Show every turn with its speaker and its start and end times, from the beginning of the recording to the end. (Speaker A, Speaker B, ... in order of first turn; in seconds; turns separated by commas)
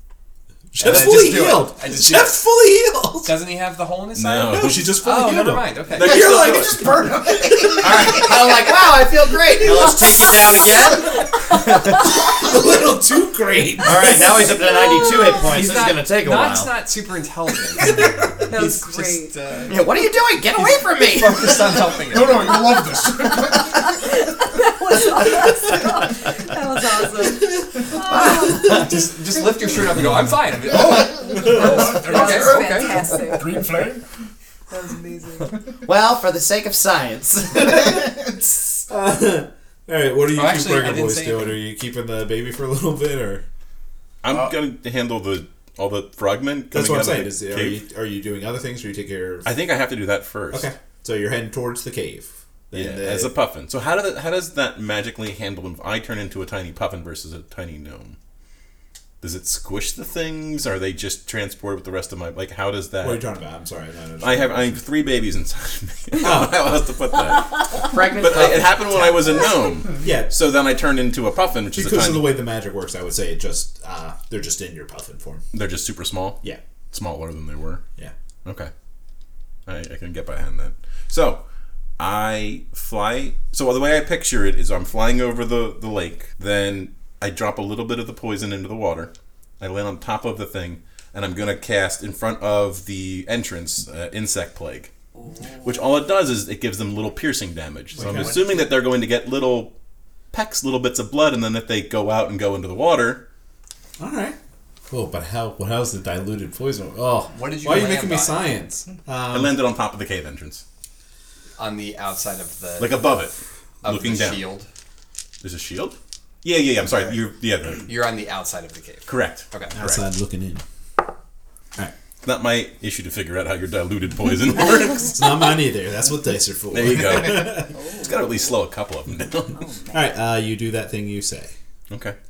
Speaker A: 0.7-3.4, Speaker B: 0.8-2.4, Speaker C: 0.9-1.2, Speaker B: 3.2-6.3, Speaker C: 4.1-5.0, Speaker A: 4.5-8.2, Speaker C: 5.9-7.0, Speaker D: 6.0-8.7, Speaker E: 7.8-11.3, Speaker A: 9.7-10.1, Speaker A: 11.5-14.4, Speaker E: 13.8-16.7, Speaker F: 14.4-15.6, Speaker B: 15.4-17.9, Speaker F: 18.4-19.3, Speaker B: 18.5-19.9, Speaker E: 19.7-21.9, Speaker B: 20.6-22.8, Speaker D: 21.9-24.0, Speaker F: 23.4-28.9, Speaker E: 27.9-29.7, Speaker B: 28.4-32.9, Speaker D: 30.7-34.0, Speaker F: 31.5-33.7, Speaker E: 31.6-33.0, Speaker F: 34.7-35.5, Speaker E: 35.8-38.2, Speaker A: 37.8-38.3, Speaker A: 38.9-43.5, Speaker B: 40.3-41.6, Speaker C: 44.2-47.8, Speaker A: 46.7-49.5, Speaker C: 49.5-50.7, Speaker A: 50.5-53.3, Speaker C: 52.7-58.2, Speaker C: 59.2-63.2, Speaker A: 63.0-64.8, Speaker C: 64.2-72.4, Speaker A: 66.2-66.7, Speaker E: 67.8-69.4, Speaker A: 70.0-70.3, Speaker A: 71.7-75.4, Speaker C: 75.5-77.8, Speaker C: 78.5-78.7, Speaker C: 79.7-81.4, Speaker C: 82.0-94.9, Speaker C: 95.6-99.7, Speaker A: 98.0-98.5, Speaker C: 100.3-103.2, Speaker A: 104.0-104.4, Speaker A: 104.9-109.6, Speaker B: 107.3-108.6, Speaker C: 109.3-110.6, Speaker B: 111.6-113.1, Speaker C: 112.8-114.4, Speaker B: 113.8-114.7, Speaker C: 115.4-117.9, Speaker B: 117.9-119.8, Speaker C: 119.1-120.0, Speaker A: 119.7-120.6, Speaker C: 122.2-125.3, Speaker A: 125.0-127.7, Speaker C: 126.7-129.7, Speaker F: 127.7-128.5, Speaker F: 129.5-130.1, Speaker A: 129.9-131.5, Speaker C: 131.9-132.2